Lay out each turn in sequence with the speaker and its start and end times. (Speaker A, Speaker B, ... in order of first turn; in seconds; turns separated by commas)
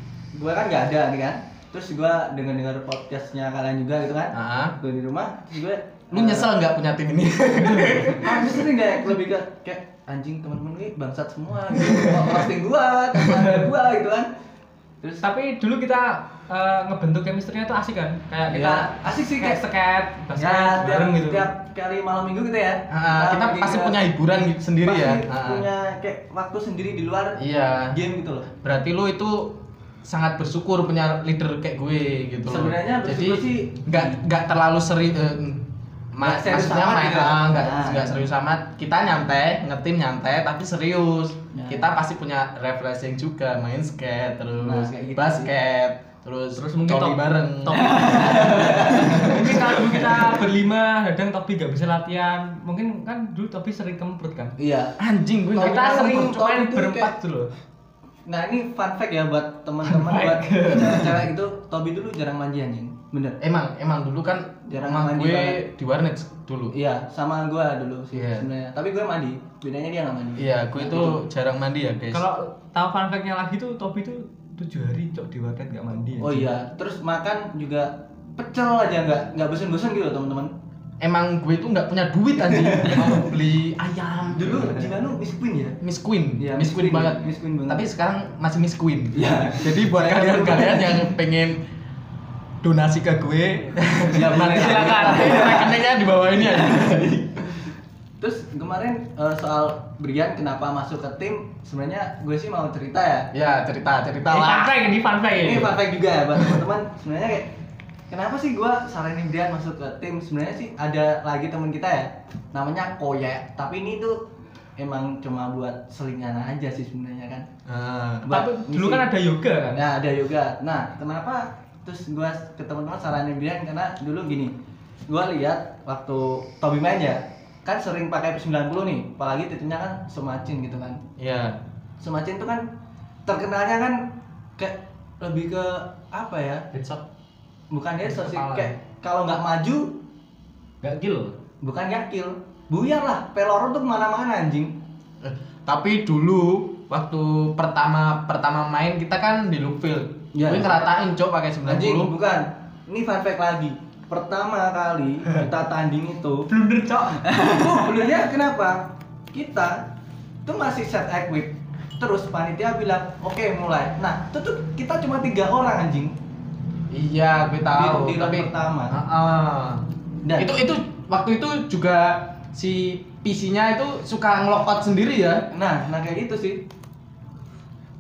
Speaker A: 0.3-6.5, Speaker B: 4.3-4.8, Speaker B: 6.1-8.7, Speaker A: 8.1-14.3, Speaker B: 11.9-12.4, Speaker C: 15.2-21.5, Speaker A: 18.5-19.6, Speaker A: 20.4-24.0, Speaker B: 22.9-25.6, Speaker A: 24.8-28.5, Speaker B: 27.4-28.0, Speaker B: 28.6-50.2, Speaker A: 32.5-34.2, Speaker A: 36.2-38.2, Speaker A: 41.5-41.9, Speaker A: 44.6-45.5, Speaker C: 46.6-54.5, Speaker A: 47.8-49.6, Speaker A: 54.6-55.0, Speaker B: 55.0-56.5, Speaker C: 55.5-57.5, Speaker A: 55.6-57.1, Speaker A: 58.3-63.4, Speaker C: 59.9-61.2, Speaker B: 63.4-66.7, Speaker A: 64.7-65.6, Speaker A: 66.7-71.2, Speaker B: 68.1-68.5, Speaker B: 70.4-72.3, Speaker C: 72.1-76.5, Speaker A: 76.2-80.5, Speaker B: 81.0-85.0, Speaker A: 82.4-83.2, Speaker A: 84.3-85.8, Speaker B: 85.8-91.6, Speaker A: 86.4-87.9, Speaker A: 89.1-91.1, Speaker B: 92.6-97.4, Speaker A: 94.1-95.7, Speaker C: 94.4-95.7, Speaker A: 98.2-103.3, Speaker B: 103.3-104.7, Speaker C: 104.3-105.8, Speaker A: 105.4-107.5, Speaker A: 108.1-114.2, Speaker A: 114.8-117.5, Speaker B: 117.7-118.3, Speaker A: 118.2-119.0, Speaker C: 118.3-119.8, Speaker A: 119.7-124.5, Speaker A: 125.1-131.0, Speaker B: 131.2-131.6, Speaker A: 132.0-132.6, Speaker A: 133.3-136.7, Speaker C: 136.7-137.1, Speaker A: 137.7-140.0, Speaker B: 138.1-138.8, Speaker C: 140.8-141.4, Speaker A: 141.6-144.7, Speaker B: 145.2-152.1, Speaker A: 150.3-150.8, Speaker A: 151.7-159.9, Speaker C: 156.5-157.2, Speaker A: 160.4-166.2, Speaker B: 166.9-169.8, Speaker A: 167.7-169.0, Speaker A: 170.2-170.5, Speaker B: 170.4-175.5, Speaker A: 175.5-176.7